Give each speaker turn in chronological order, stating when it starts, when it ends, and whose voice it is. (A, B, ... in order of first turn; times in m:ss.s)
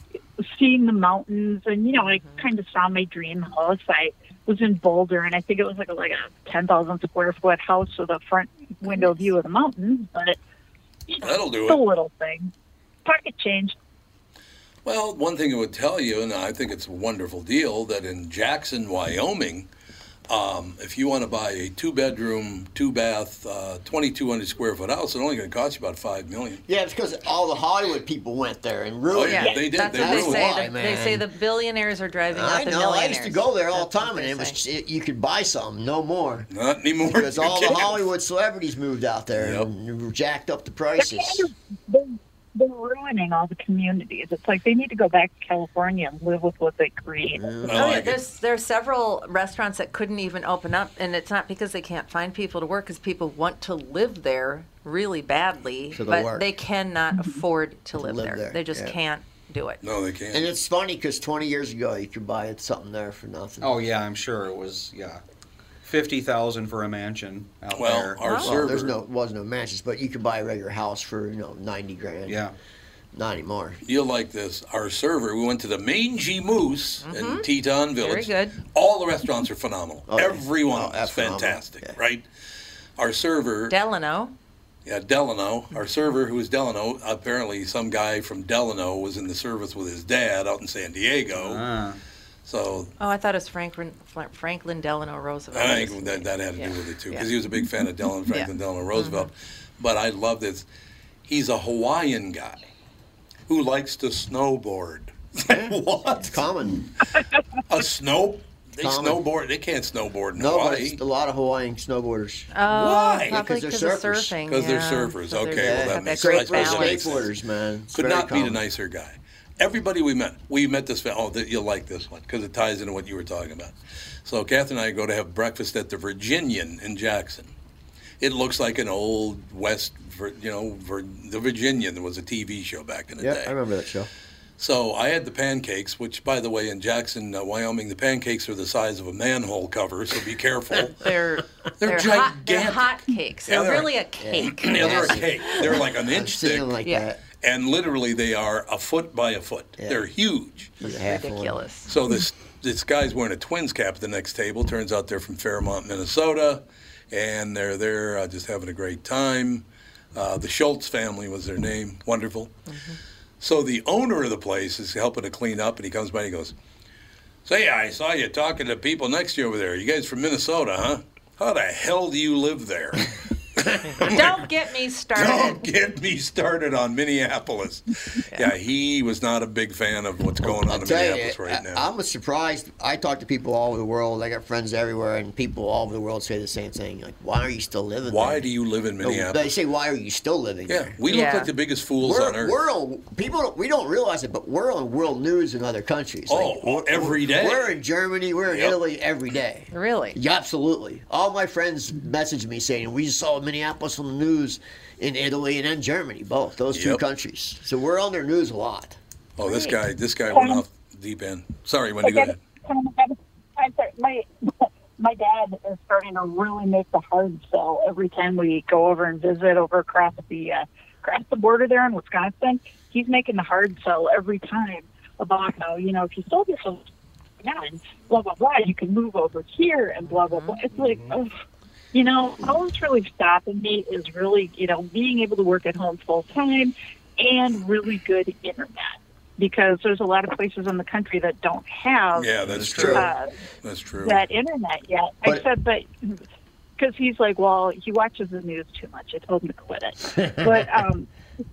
0:00.4-0:10.4 A
0:02.0-0:02.4 B
0:11.1-0:12.5 A
0:11.2-0:11.8 C
0:13.0-0:13.7 A
0:14.8-0:19.7 C
0:20.3-0:26.6 C
0:26.7-0:31.3 D
0:29.1-0:30.6 C
0:29.2-0:34.6 B
0:32.3-0:36.5 D
0:36.5-0:38.1 C
0:37.0-0:41.5 D
0:39.4-0:39.7 C
0:41.0-0:47.5 A
0:47.4-0:48.0 D
0:47.6-0:48.2 C
0:47.7-0:59.8 B
0:55.9-0:56.5 D
0:58.0-0:59.0 D
0:59.8-1:00.5 C
1:00.3-1:03.7 D
1:03.6-1:05.2 E
1:05.8-1:08.3 E
1:07.7-1:09.0 C
1:08.2-1:08.6 B
1:08.4-1:12.4 D
1:12.3-1:12.5 E
1:13.1-1:13.8 D
1:13.8-1:22.2 C
1:17.0-1:18.6 B
1:20.1-1:22.0 D
1:23.0-1:23.8 C
1:23.7-1:24.3 B
1:24.8-1:31.6 C
1:31.3-1:32.0 E
1:32.4-1:32.9 C
1:33.0-1:37.3 B
1:35.5-1:40.6 C
1:38.3-1:39.3 B
1:41.2-1:42.7 C
1:43.5-1:46.4 C
1:45.5-1:46.9 D
1:47.7-1:51.0 C
1:48.8-1:49.2 D
1:50.4-1:52.5 D
1:52.5-1:57.2 B
1:52.7-1:53.4 C
1:53.2-1:54.4 D
1:54.5-1:57.3 C
1:55.5-1:58.6 D
1:57.9-2:07.5 C
2:08.2-2:13.5 C
2:13.2-2:14.1 D
2:14.6-2:21.0 C
2:21.0-2:25.6 B
2:21.8-2:26.7 C
2:24.2-2:27.2 D
2:27.4-2:30.7 C
2:29.8-2:30.0 D
2:30.8-2:31.6 D
2:30.8-2:31.9 B
2:31.8-2:42.5 C
2:42.7-2:43.0 B
2:43.4-2:46.5 C
2:47.4-2:54.4 C
2:54.0-2:55.6 B
2:55.1-3:01.8 C
3:00.4-3:08.5 D
3:08.0-3:09.5 C
3:09.0-3:11.0 D
3:10.7-3:12.6 C
3:11.1-3:11.5 B
3:12.0-3:29.0 D
3:16.3-3:17.7 C
3:18.5-3:18.8 C
3:19.7-3:20.2 B
3:26.7-3:27.0 C
3:29.4-3:32.4 C
3:29.4-3:29.8 B
3:30.3-3:30.6 A
3:32.0-3:46.8 A
3:47.4-3:51.3 A
3:50.0-3:50.6 B
3:50.7-3:51.1 E
3:51.9-4:03.3 A
4:02.1-4:03.1 C
4:02.4-4:03.0 E
4:02.6-4:03.0 D
4:03.6-4:04.2 C
4:04.0-4:06.2 A
4:06.8-4:11.1 A